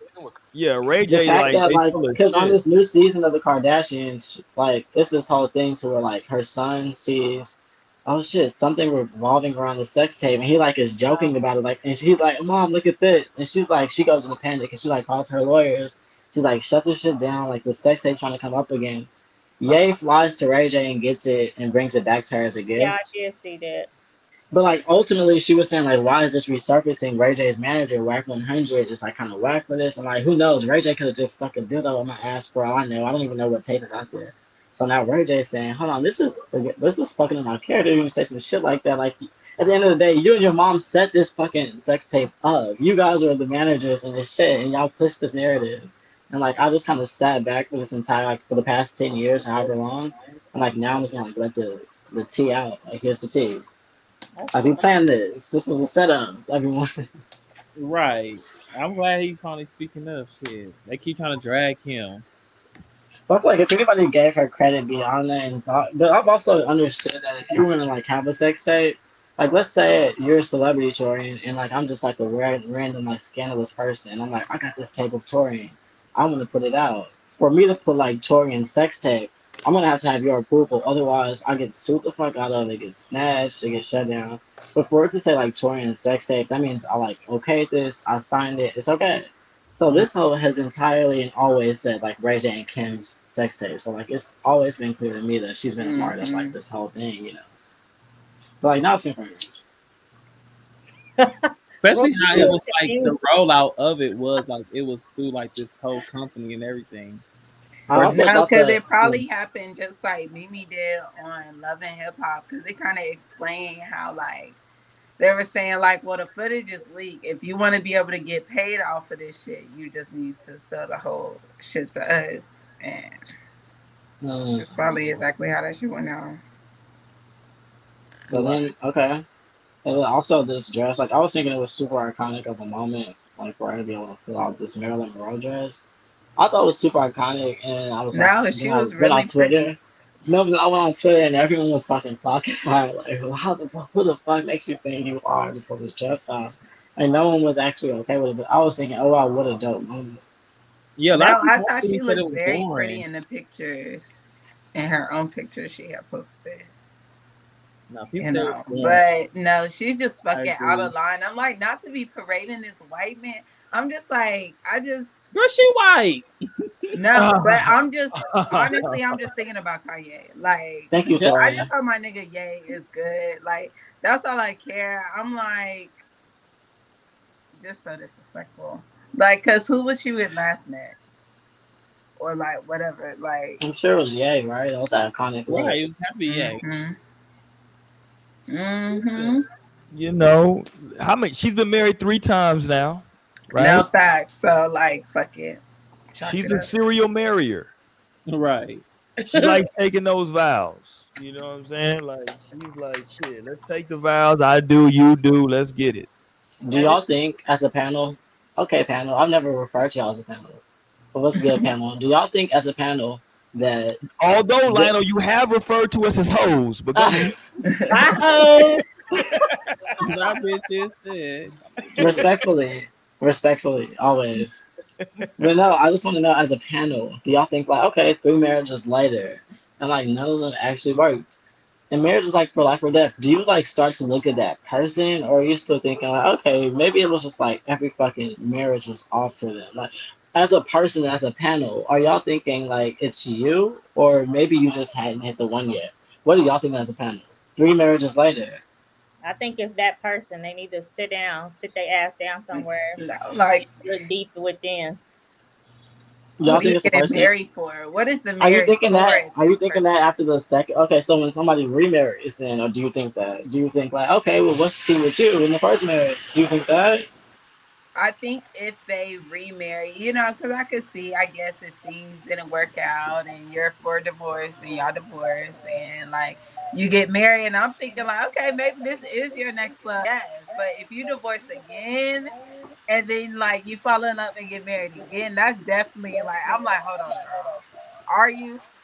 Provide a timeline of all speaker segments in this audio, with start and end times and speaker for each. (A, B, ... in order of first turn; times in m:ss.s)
0:00.5-0:02.6 A
0:01.1-0:19.1 B
0:19.6-0:22.9 B
0:22.8-0:23.9 C
0:24.5-0:53.6 B
0:54.4-0:54.9 C
0:54.5-0:56.9 B
0:57.8-1:02.2 D
1:03.3-1:37.5 B
1:35.8-1:36.5 E
1:38.6-1:39.5 B
1:41.2-1:43.2 C
1:41.8-1:47.2 D
1:47.9-1:49.2 B
1:47.9-1:54.6 E
1:48.0-1:48.3 D
1:55.2-2:03.2 E
2:04.2-2:04.7 B
2:04.6-2:06.4 E
2:08.3-2:08.6 E
2:08.3-2:09.2 B
2:09.8-2:30.2 B
2:18.1-2:19.7 E
2:31.0-2:33.0 D
2:31.1-2:36.7 E
2:37.9-2:39.0 D
2:38.2-2:45.2 E
2:40.3-2:40.9 D
2:45.3-2:46.3 D
2:47.0-2:56.0 E
2:47.1-2:49.2 A
2:50.9-2:51.7 B
2:57.6-3:01.0 E
3:02.2-3:03.6 E
3:03.6-3:05.8 B
3:05.5-3:06.6 D
3:06.3-3:07.0 E
3:08.5-3:09.4 E
3:09.9-3:13.9 A
3:13.6-3:16.7 E
3:16.2-3:17.7 A
3:18.3-3:18.8 D
3:19.2-3:26.1 A
3:26.6-3:30.6 B
3:31.1-3:34.0 B
3:31.4-3:31.7 E
3:34.2-3:37.4 A
3:34.7-3:34.9 B
3:37.0-3:37.4 B
3:37.7-3:38.3 E
3:37.9-3:38.8 C
3:39.2-3:39.6 A
3:40.0-3:42.2 D
3:41.8-3:42.3 A
3:42.0-3:44.7 B
3:45.0-3:45.3 A
3:45.4-3:51.4 B
3:51.9-4:08.6 B
4:09.2-4:13.0 C
4:12.5-4:14.0 E
4:13.8-4:15.0 C
4:16.4-4:17.3 B
4:16.4-4:19.8 E
4:18.4-4:27.1 B
4:28.0-4:42.3 E
4:42.9-4:47.6 E
4:48.1-4:48.6 E